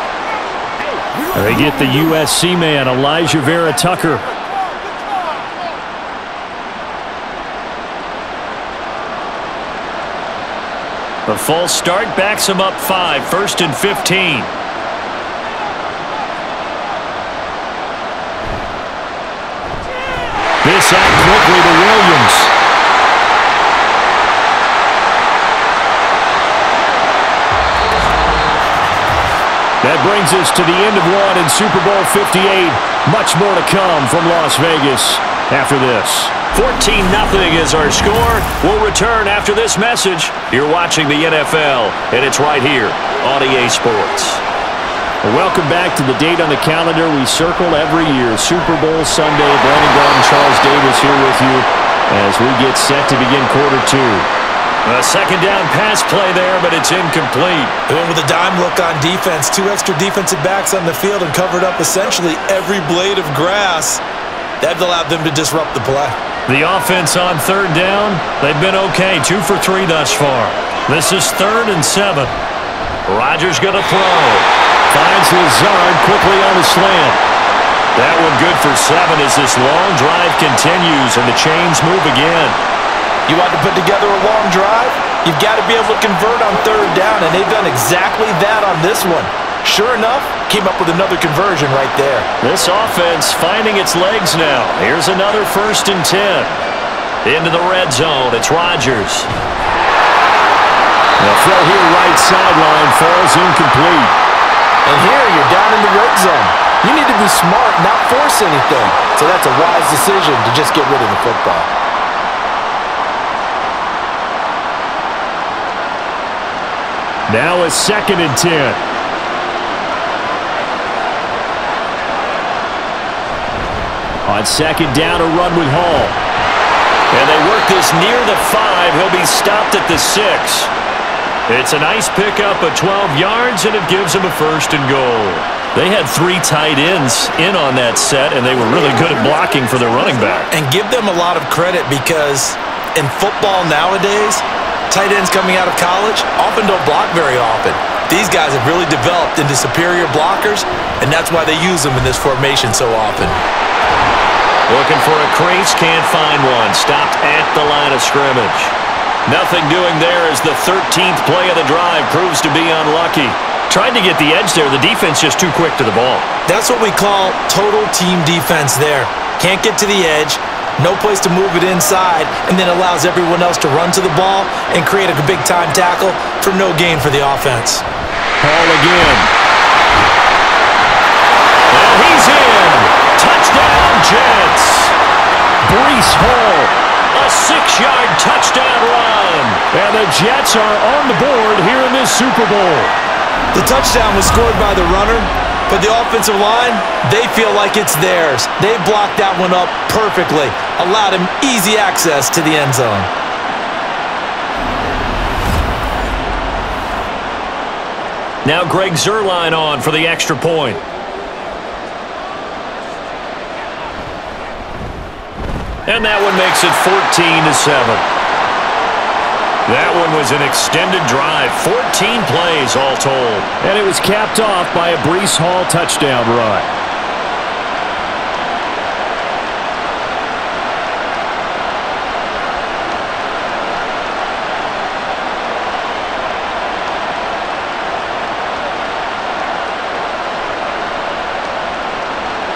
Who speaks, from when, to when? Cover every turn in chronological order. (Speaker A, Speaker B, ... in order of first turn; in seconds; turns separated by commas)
Speaker A: 1.3-4.2, Speaker A: 11.2-14.5, Speaker A: 20.6-22.5, Speaker A: 29.8-44.4, Speaker A: 45.2-54.3, Speaker A: 54.9-57.7, Speaker B: 57.9-64.0, Speaker B: 64.6-66.2, Speaker A: 66.5-72.3, Speaker A: 73.1-77.2, Speaker A: 78.0-82.6, Speaker B: 83.3-92.3, Speaker A: 92.4-96.6, Speaker A: 97.2-99.3, Speaker A: 101.2-104.1, Speaker B: 104.8-111.7, Speaker A: 117.3-118.8, Speaker A: 124.2-126.2, Speaker A: 127.1-130.7, Speaker A: 131.5-140.5, Speaker B: 140.5-153.4, Speaker A: 154.7-166.3, Speaker B: 166.5-177.8, Speaker A: 178.4-179.3, Speaker A: 181.7-184.9, Speaker A: 185.6-192.9, Speaker B: 193.5-203.1, Speaker A: 208.4-210.8, Speaker A: 215.9-218.1, Speaker A: 219.7-226.7